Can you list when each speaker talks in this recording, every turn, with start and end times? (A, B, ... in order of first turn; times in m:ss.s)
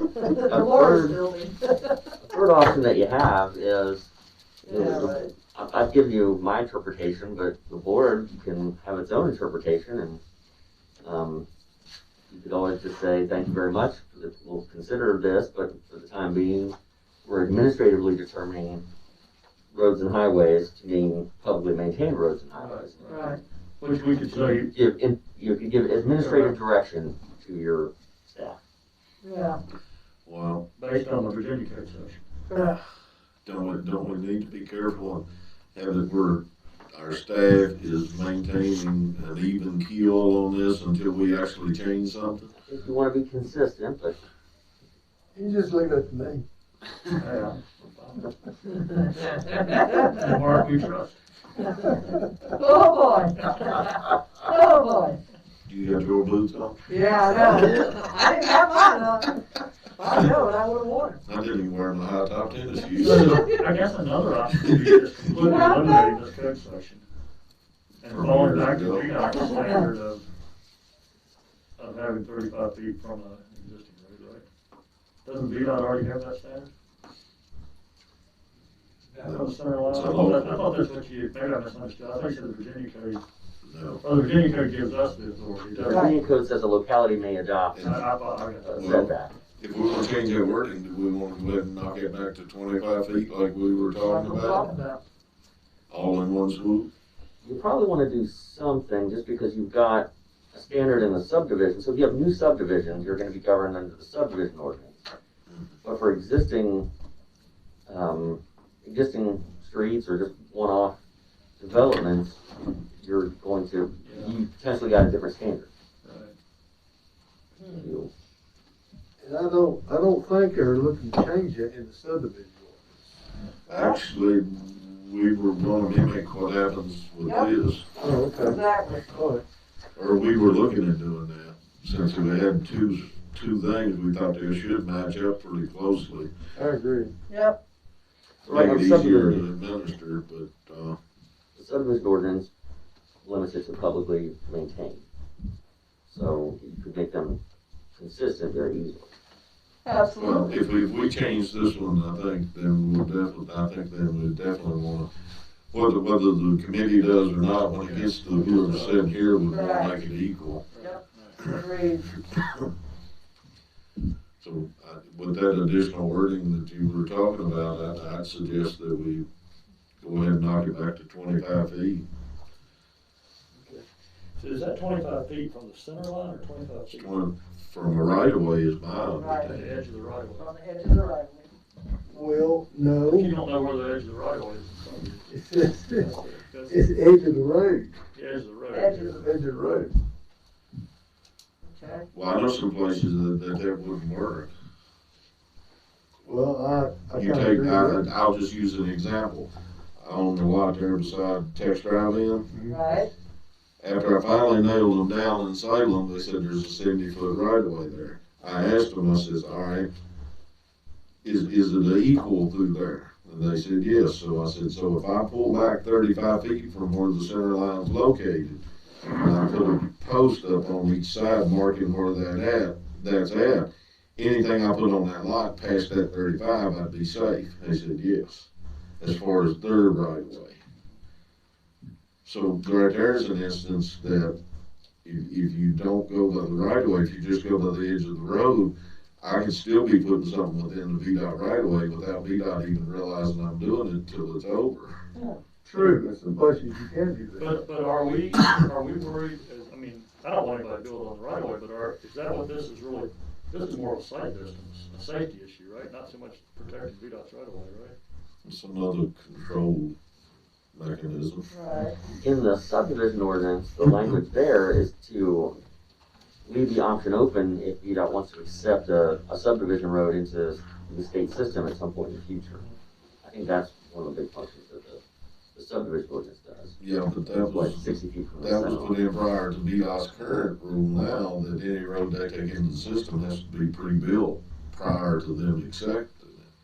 0:00.1-0:01.9 A
0:00.4-0:01.2 B
0:02.3-0:04.1 B
0:04.6-0:05.3 A
0:04.7-0:10.2 B
0:11.0-0:11.4 B
0:12.3-0:18.8 B
0:19.7-0:23.1 B
0:22.5-0:24.7 C
0:23.0-0:23.4 A
0:24.7-0:28.6 B
0:26.1-0:26.6 C
0:29.2-0:29.6 A
0:30.2-0:30.6 D
0:30.8-0:32.2 C
0:32.5-0:32.8 A
0:33.4-0:42.5 D
0:42.7-0:44.2 B
0:45.3-0:46.4 E
0:47.1-0:48.3 C
0:49.0-0:51.2 C
0:49.7-0:50.2 A
0:51.8-0:55.2 A
0:55.7-0:56.8 D
0:56.9-0:59.4 A
1:00.0-1:01.2 A
1:01.2-1:03.5 D
1:03.0-1:07.1 C
1:05.4-1:05.8 A
1:08.0-1:10.3 C
1:08.1-1:09.1 D
1:11.8-1:14.4 C
1:15.2-1:16.7 C
1:19.1-1:23.2 C
1:19.2-1:20.6 D
1:23.6-1:24.0 D
1:24.0-1:26.1 C
1:25.9-1:26.1 A
1:25.9-1:27.9 B
1:27.7-1:28.0 D
1:27.8-1:28.9 C
1:28.6-1:29.3 B
1:28.8-1:34.6 D
1:34.0-1:35.0 A
1:35.9-1:36.9 D
1:37.4-1:45.0 B
1:45.8-1:46.9 B
1:47.9-1:51.0 B
1:51.6-1:52.4 B
1:53.0-1:55.7 B
1:54.0-1:54.4 C
1:56.0-1:56.3 C
1:57.6-1:57.9 A
1:57.7-1:58.1 B
1:59.2-2:03.1 E
2:03.7-2:07.8 D
2:07.2-2:07.5 A
2:08.0-2:08.6 E
2:08.4-2:09.4 A
2:10.0-2:16.3 D
2:16.5-2:17.1 E
2:17.3-2:17.6 A
2:18.4-2:19.4 B
2:18.5-2:21.0 D
2:21.5-2:22.5 B
2:23.2-2:25.0 B
2:26.1-2:27.4 B
2:28.0-2:29.1 B
2:29.8-2:30.5 A
2:30.2-2:35.1 D
2:35.7-2:40.6 D
2:37.8-2:39.0 C
2:39.4-2:39.9 A
2:40.7-2:41.5 C
2:40.8-2:42.1 A
2:44.4-2:49.2 D
2:50.0-2:52.0 D
2:53.6-2:53.8 C
2:54.4-2:57.1 C
2:56.9-2:59.8 D
2:59.2-2:59.6 A
2:59.5-3:00.5 C
3:00.4-3:01.5 A
3:02.1-3:03.3 E
3:03.1-3:05.3 C
3:05.3-3:06.1 E
3:05.9-3:06.8 C
3:06.6-3:08.0 E
3:08.1-3:09.2 C
3:08.7-3:09.2 A
3:09.1-3:09.9 E
3:11.7-3:12.0 A
3:12.1-3:14.5 D
3:16.2-3:18.1 E
3:17.1-3:22.5 D
3:22.5-3:22.8 E
3:22.7-3:23.1 A
3:23.8-3:29.9 D
3:31.2-3:38.6 D
3:39.1-3:50.6 D
3:52.2-3:54.4 D
3:55.0-4:05.0 D
4:05.6-4:07.6 E
4:07.4-4:18.0 C
4:18.4-4:20.0 D
4:20.7-4:21.5 D
4:21.5-4:22.0 A
4:22.1-4:25.6 B
4:26.4-4:32.6 B
4:33.2-4:35.0 B
4:35.5-4:36.8 B
4:36.8-4:37.8 D
4:37.4-4:38.9 B
4:38.4-4:46.5 D